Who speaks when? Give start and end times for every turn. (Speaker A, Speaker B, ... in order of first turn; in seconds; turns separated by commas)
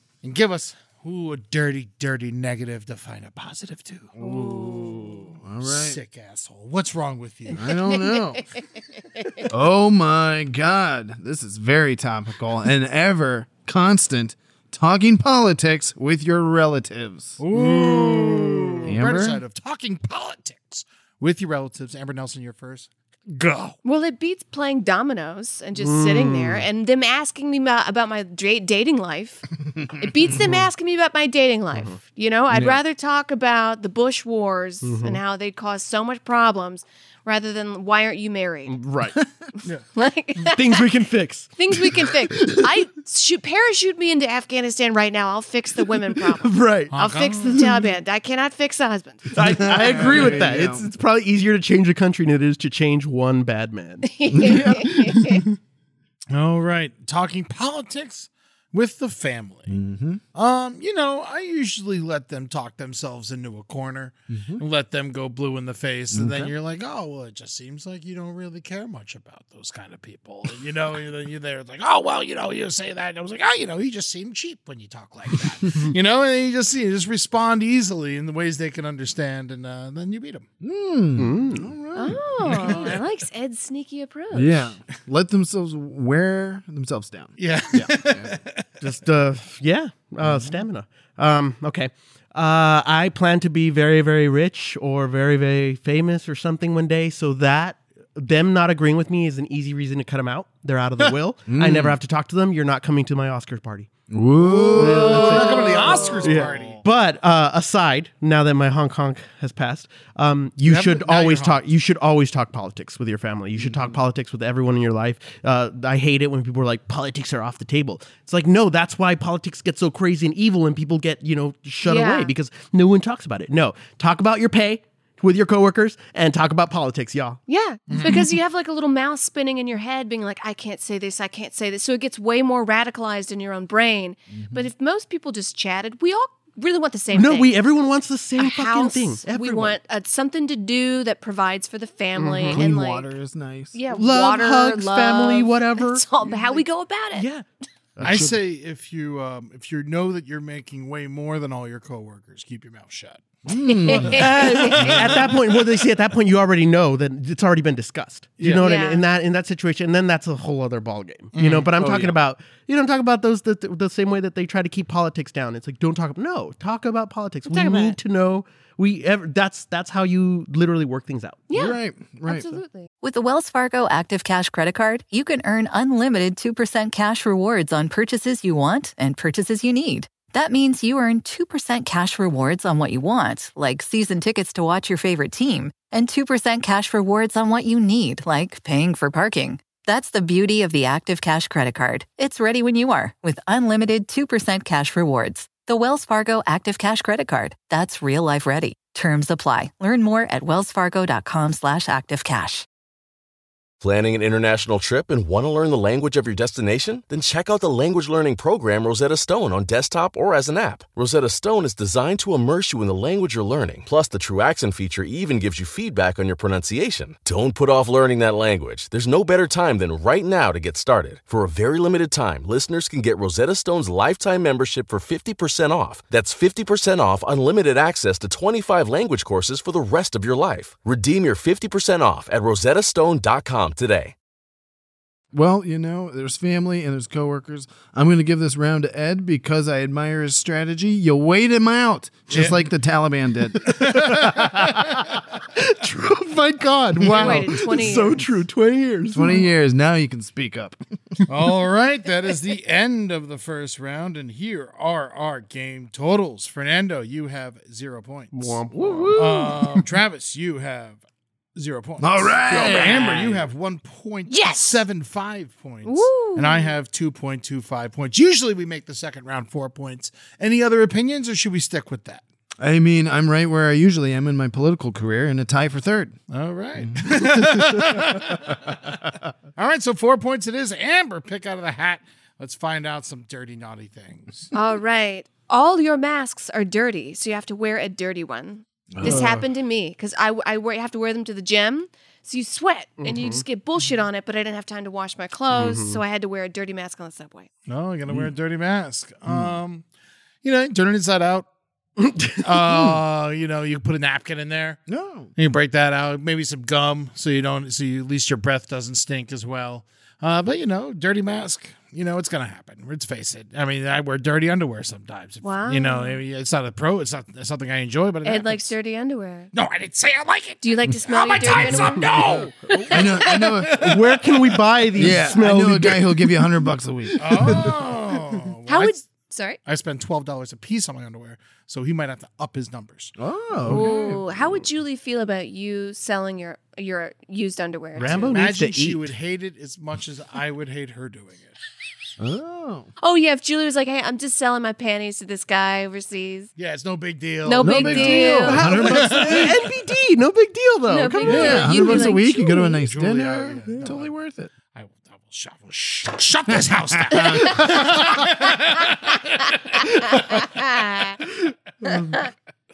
Speaker A: 0.2-4.2, Speaker B: 4.2-6.0, Speaker C: 4.2-5.2, Speaker A: 5.6-7.7, Speaker B: 7.5-8.4, Speaker C: 7.9-9.4, Speaker B: 9.5-19.4, Speaker A: 17.4-23.8, Speaker D: 17.6-18.9, Speaker C: 23.8-38.8, Speaker D: 25.8-26.7, Speaker B: 32.5-32.8, Speaker D: 34.8-35.2, Speaker D: 38.7-39.2, Speaker C: 39.6-40.8, Speaker D: 40.5-41.5, Speaker C: 41.6-49.4, Speaker D: 46.4-46.9, Speaker A: 46.9-47.6, Speaker D: 49.3-55.5, Speaker B: 49.4-50.9, Speaker C: 54.0-55.4, Speaker B: 54.3-55.0, Speaker A: 56.3-59.7, Speaker B: 59.7-60.2, Speaker A: 60.3-80.5, Speaker B: 64.3-64.6, Speaker B: 66.1-66.5, Speaker B: 80.6-82.9, Speaker D: 81.2-81.7, Speaker C: 81.9-84.7, Speaker A: 82.5-83.0, Speaker B: 84.3-88.3, Speaker A: 87.4-88.6, Speaker D: 88.8-103.9, Speaker B: 90.2-90.6, Speaker B: 101.5-102.0, Speaker B: 104.1-106.8, Speaker A: 104.5-106.8, Speaker D: 104.7-127.4, Speaker A: 110.6-111.6, Speaker C: 121.8-122.3, Speaker C: 127.5-137.5, Speaker A: 127.9-128.3, Speaker B: 134.3-134.7, Speaker D: 137.1-139.8, Speaker C: 138.4-143.1, Speaker D: 142.2-142.6, Speaker B: 142.5-143.8, Speaker C: 143.7-147.2, Speaker D: 143.9-146.1, Speaker D: 147.1-147.4, Speaker D: 147.9-148.2, Speaker B: 148.0-148.4, Speaker A: 148.0-153.3, Speaker B: 153.4-154.3, Speaker C: 153.6-154.9, Speaker A: 153.9-155.4, Speaker D: 154.1-171.4, Speaker A: 158.4-158.7, Speaker C: 158.6-159.0, Speaker A: 161.3-161.7, Speaker B: 161.8-162.2, Speaker C: 171.5-172.9, Speaker B: 171.5-172.6, Speaker E: 173.0-202.7, Speaker F: 203.8-234.1, Speaker B: 235.3-243.8, Speaker A: 242.3-242.6, Speaker A: 243.7-244.7, Speaker D: 243.8-245.0, Speaker D: 245.6-249.4, Speaker B: 247.0-247.4, Speaker C: 247.1-248.2, Speaker B: 249.1-250.8, Speaker A: 251.3-258.6, Speaker D: 258.3-259.2, Speaker B: 258.7-259.9, Speaker A: 259.1-261.0, Speaker A: 261.5-272.2, Speaker B: 262.0-263.5, Speaker D: 262.5-263.0, Speaker C: 264.3-264.8, Speaker C: 265.8-266.7, Speaker B: 272.6-276.2, Speaker A: 276.3-279.0, Speaker B: 276.8-277.6, Speaker A: 279.6-284.5, Speaker C: 284.5-297.5, Speaker B: 288.9-289.4, Speaker D: 293.0-293.4, Speaker D: 295.5-296.0, Speaker A: 297.7-299.8, Speaker B: 299.3-299.5, Speaker A: 300.4-301.5, Speaker D: 302.0-302.4, Speaker A: 302.4-304.8, Speaker B: 302.6-303.0, Speaker B: 304.9-305.3, Speaker A: 305.4-318.7, Speaker C: 315.4-316.2, Speaker C: 318.2-319.5, Speaker A: 319.5-324.4, Speaker C: 320.6-322.0, Speaker B: 321.5-324.1, Speaker D: 323.7-326.4, Speaker B: 324.9-327.7, Speaker A: 327.2-329.0, Speaker D: 327.2-327.8, Speaker C: 328.7-329.6, Speaker A: 329.6-333.1, Speaker B: 333.2-334.2, Speaker A: 333.7-334.2, Speaker C: 333.7-338.3, Speaker D: 338.0-339.1, Speaker A: 338.0-341.6, Speaker B: 342.2-342.9, Speaker C: 343.0-346.5, Speaker A: 346.6-349.5, Speaker C: 347.4-348.7, Speaker B: 347.6-349.6, Speaker D: 348.6-351.9, Speaker C: 350.9-352.8, Speaker B: 351.2-354.5, Speaker A: 352.8-354.1, Speaker A: 354.7-360.6, Speaker B: 356.5-358.0, Speaker C: 357.2-357.8, Speaker C: 360.1-361.2